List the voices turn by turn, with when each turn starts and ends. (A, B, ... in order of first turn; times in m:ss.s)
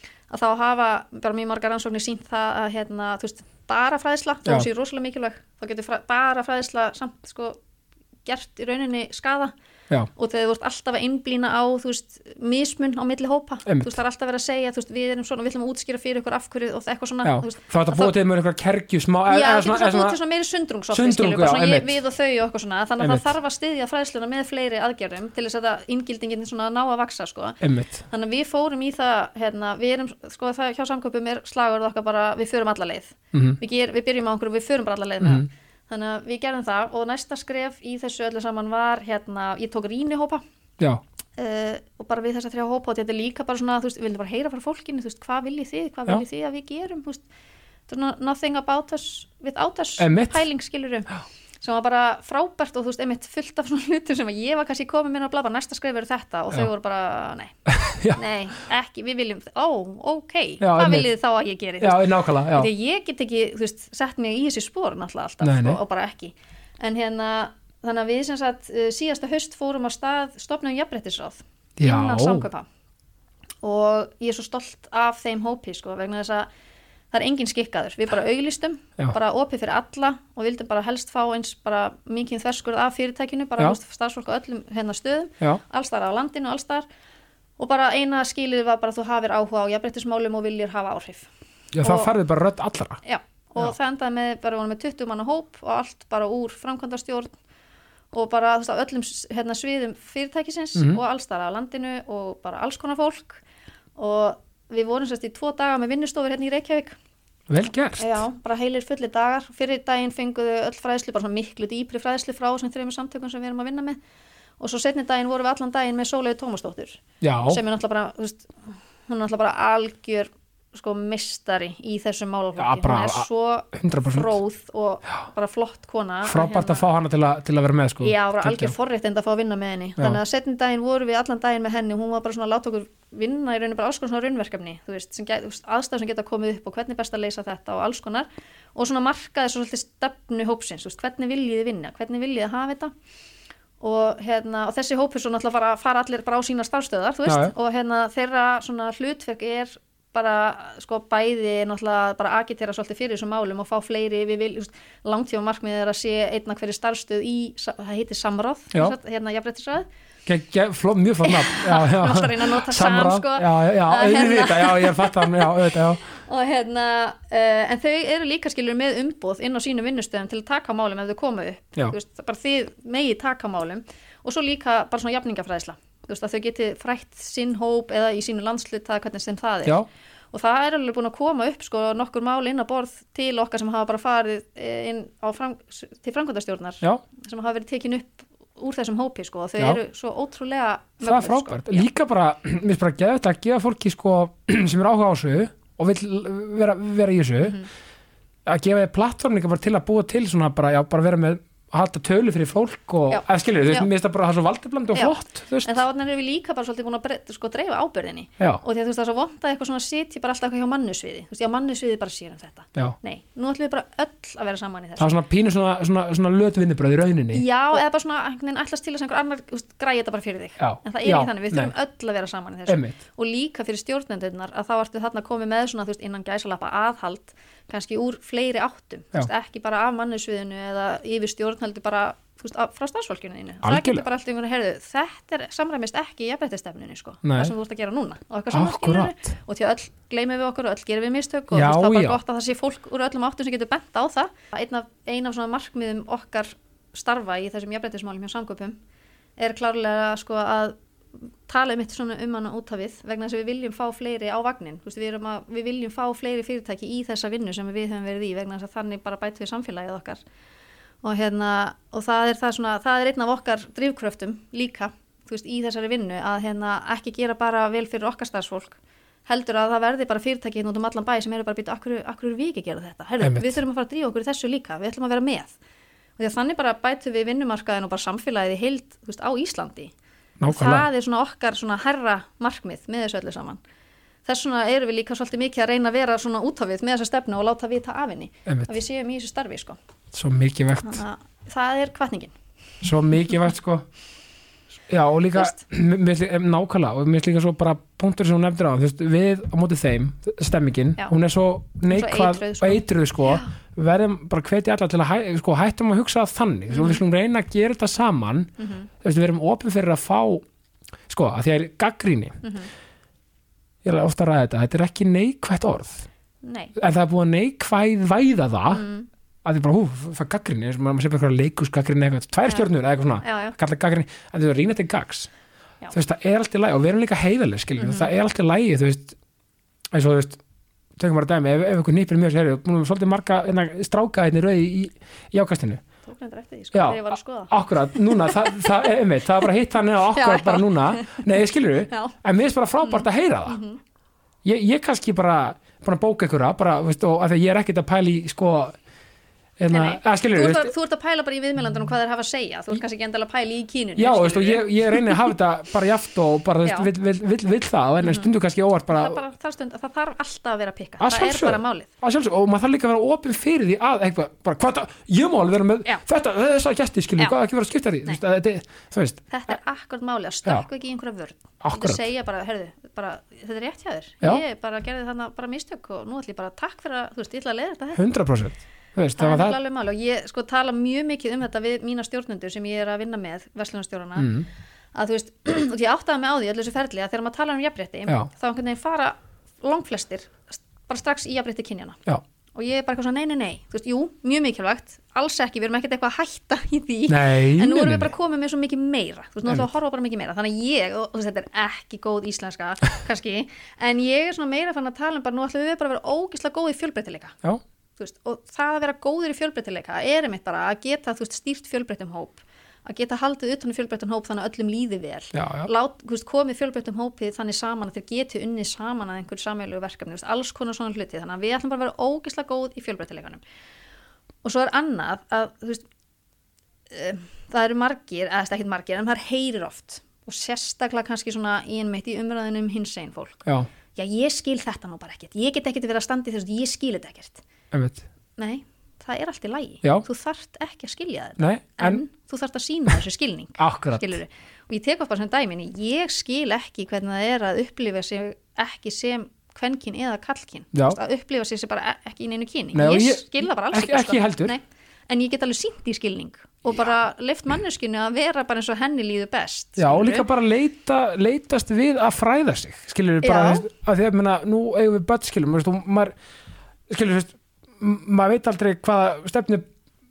0:00.3-0:07.6 A
0:08.2-0:09.5 A
0:10.2-0:18.1 A
0:13.6-0:14.0 B
0:17.2-0:20.2 B
0:19.3-0:40.4 A
0:20.9-0:22.0 B
0:23.0-0:23.3 B
0:27.6-0:28.0 B
0:33.3-0:33.6 B
0:35.2-0:35.5 B
0:41.4-0:47.2 A
0:47.9-0:51.1 A
0:50.0-0:50.4 B
0:51.6-0:57.5 A
0:57.7-0:58.2 B
0:58.1-1:12.7 A
1:00.6-1:01.1 B
1:01.8-1:02.7 B
1:05.4-1:05.8 B
1:11.8-1:12.5 B
1:13.6-1:16.5 A
1:17.1-1:26.8 A
1:27.6-1:31.3 A
1:31.7-1:33.0 B
1:31.8-1:32.1 A
1:33.0-1:37.3 A
1:38.1-1:43.4 A
1:44.0-1:47.0 A
1:47.5-1:48.2 B
1:48.0-1:54.0 A
1:54.6-1:58.5 A
1:57.2-1:57.6 B
1:59.1-2:06.9 A
2:02.6-2:04.3 B
2:06.2-2:08.7 B
2:08.0-2:22.9 A
2:23.8-2:39.9 A
2:27.2-2:27.5 B
2:40.3-2:46.0 B
2:41.2-2:59.8 A
3:00.3-3:11.9 A
3:11.0-3:17.6 B
3:18.4-3:25.8 B
3:23.1-3:23.9 A
3:24.9-3:35.1 A
3:35.0-3:37.4 B
3:37.3-4:08.8 A
3:40.6-3:41.7 B
3:42.7-3:43.0 B
3:53.6-3:54.0 B
3:57.2-3:57.5 B
3:58.5-3:59.3 B
4:01.5-4:02.2 B
4:09.4-4:10.8 A
4:11.4-4:20.2 A
4:21.0-4:35.5 A
4:33.2-4:33.6 B
4:36.2-4:39.9 A
4:40.4-4:40.9 B
4:40.5-4:43.6 A
4:44.2-4:49.8 A
4:48.4-4:48.7 B
4:50.1-4:51.0 B
4:50.8-4:52.3 A
4:52.8-4:53.8 B
4:54.9-5:10.4 B
4:55.3-4:55.6 A
5:01.9-5:03.5 A
5:06.7-5:07.0 A
5:08.6-5:08.9 A
5:11.1-5:12.4 B
5:12.4-5:12.7 A
5:13.8-5:16.1 B
5:16.4-5:16.7 A
5:16.8-5:18.8 B
5:18.7-5:19.1 A
5:19.4-5:25.3 B
5:23.2-5:23.6 A
5:25.9-5:29.2 B
5:27.8-5:28.1 A
5:29.9-5:30.4 B
5:31.0-5:35.8 B
5:36.0-5:38.9 A
5:36.7-5:43.6 B
5:40.1-5:41.2 A
5:41.9-5:42.1 A
5:42.8-5:43.8 A
5:44.4-5:48.8 B
5:49.6-5:50.7 B
5:49.7-5:55.3 A
5:54.0-5:59.2 B
5:56.6-5:56.9 A
5:58.0-5:58.3 A
5:58.9-6:01.9 A
6:01.0-6:09.2 B
6:09.3-6:18.0 A
6:11.6-6:12.1 B
6:18.0-6:19.6 B
6:19.2-6:24.3 A
6:24.2-6:24.5 B
6:24.9-6:32.0 A
6:32.5-6:47.4 A
6:37.1-6:38.1 B
6:48.0-7:03.4 A
6:55.3-6:55.7 B
7:04.4-7:05.8 A
7:06.9-7:17.4 A
7:17.7-7:18.0 B
7:18.4-7:40.3 A
7:21.4-7:22.0 B
7:23.6-7:24.2 B
7:32.7-7:34.5 B
7:39.8-7:46.1 B
7:43.2-7:43.7 A
7:46.9-7:49.6 B